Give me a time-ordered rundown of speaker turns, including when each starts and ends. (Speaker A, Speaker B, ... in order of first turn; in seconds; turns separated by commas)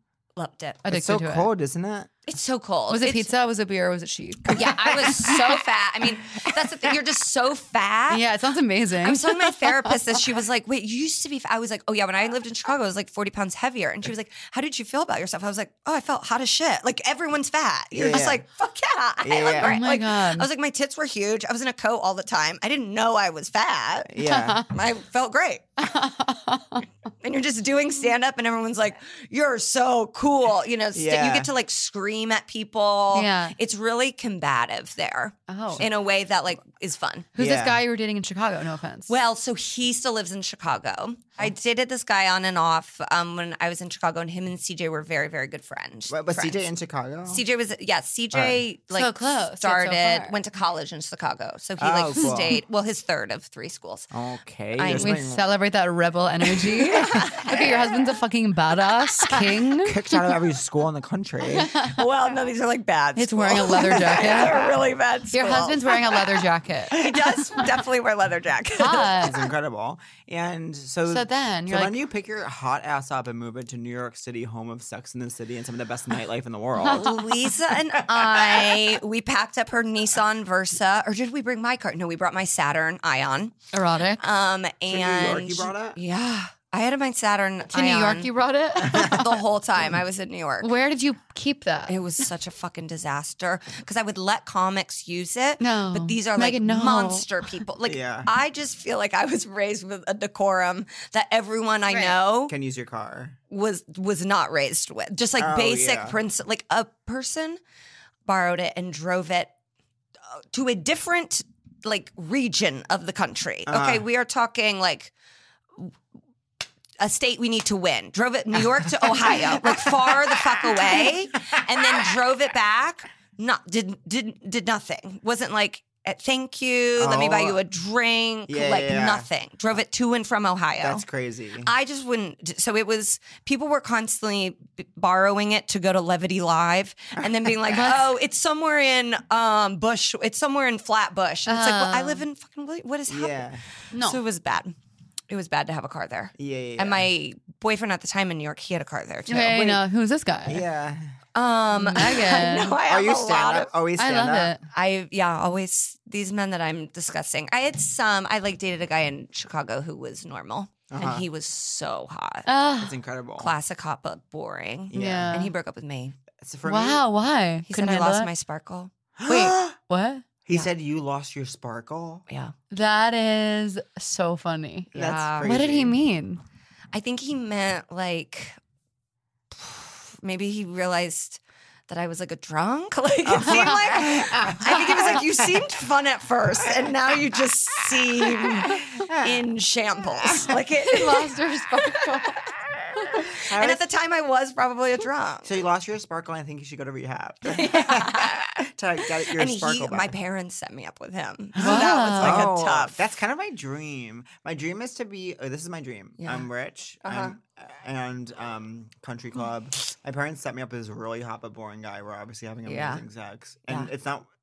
Speaker A: 0.4-0.8, Speaker B: 0.9-1.5, Speaker C: 0.9-2.1, Speaker A: 2.3-3.3, Speaker B: 2.9-4.6, Speaker C: 4.5-5.6, Speaker A: 4.5-8.3, Speaker C: 6.4-6.7, Speaker B: 8.1-9.9, Speaker A: 9.0-24.2, Speaker C: 17.9-18.4, Speaker C: 19.2-19.8, Speaker B: 19.6-20.5, Speaker C: 24.1-24.7, Speaker B: 24.2-24.7, Speaker A: 24.7-25.8, Speaker B: 25.8-26.8, Speaker A: 27.2-37.3, Speaker C: 30.9-31.5, Speaker B: 33.1-33.5, Speaker B: 35.5-35.8, Speaker C: 37.4-37.8, Speaker B: 37.4-39.1, Speaker A: 39.1-46.6, Speaker C: 46.1-47.4, Speaker A: 47.3-54.1, Speaker C: 48.3-48.6, Speaker B: 48.9-50.4, Speaker C: 51.8-52.6, Speaker C: 54.1-55.5, Speaker A: 54.8-55.2, Speaker B: 54.9-60.1, Speaker A: 56.6-58.1, Speaker C: 59.8-61.8, Speaker B: 61.6-62.0, Speaker A: 61.7-69.4, Speaker B: 63.2-64.7, Speaker B: 65.3-67.7, Speaker B: 68.8-69.4, Speaker C: 69.2-79.0, Speaker B: 71.1-72.0, Speaker B: 76.8-77.3, Speaker A: 76.9-83.6, Speaker B: 83.7-84.2, Speaker A: 84.2-90.7, Speaker C: 84.9-86.0, Speaker B: 87.7-89.3, Speaker C: 88.9-89.2, Speaker B: 90.6-92.0, Speaker A: 91.9-102.5, Speaker B: 95.6-97.3, Speaker C: 97.8-98.3, Speaker C: 101.9-103.4, Speaker A: 103.5-107.6, Speaker C: 105.4-106.2, Speaker A: 108.3-109.5, Speaker A: 110.3-115.1, Speaker C: 113.7-114.0, Speaker A: 117.0-131.0, Speaker C: 119.3-120.1, Speaker C: 127.0-127.6, Speaker C: 128.5-129.3, Speaker C: 130.8-131.7, Speaker A: 131.6-144.7, Speaker B: 141.5-142.2, Speaker C: 143.1-143.6, Speaker B: 143.9-144.2, Speaker A: 145.3-149.8, Speaker C: 146.4-147.1, Speaker B: 149.3-150.6, Speaker C: 150.5-151.2, Speaker A: 151.3-153.7, Speaker B: 151.7-152.8, Speaker C: 152.8-154.6, Speaker B: 154.0-154.6, Speaker A: 154.7-162.5, Speaker C: 160.9-161.3, Speaker B: 162.5-162.9, Speaker C: 162.8-163.5, Speaker A: 163.4-166.2, Speaker C: 164.9-165.4, Speaker B: 164.9-165.5, Speaker C: 166.4-167.0, Speaker B: 166.6-168.3, Speaker A: 167.7-168.9, Speaker C: 169.2-169.8, Speaker B: 169.3-170.2, Speaker C: 170.5-172.2, Speaker A: 172.3-172.5, Speaker B: 172.7-174.9, Speaker A: 174.9-175.5, Speaker C: 174.9-176.0, Speaker B: 175.4-176.4, Speaker A: 176.9-178.6, Speaker A: 179.5-191.3, Speaker C: 183.2-185.8, Speaker B: 183.4-184.1, Speaker C: 186.6-189.4, Speaker C: 190.2-190.6, Speaker B: 190.8-192.4, Speaker A: 193.4-195.6, Speaker C: 193.4-193.8, Speaker C: 195.4-200.1, Speaker A: 197.4-198.5, Speaker A: 199.3-203.0, Speaker C: 201.6-214.3, Speaker B: 201.6-202.5, Speaker A: 206.2-206.5, Speaker A: 207.0-207.3, Speaker A: 212.7-213.0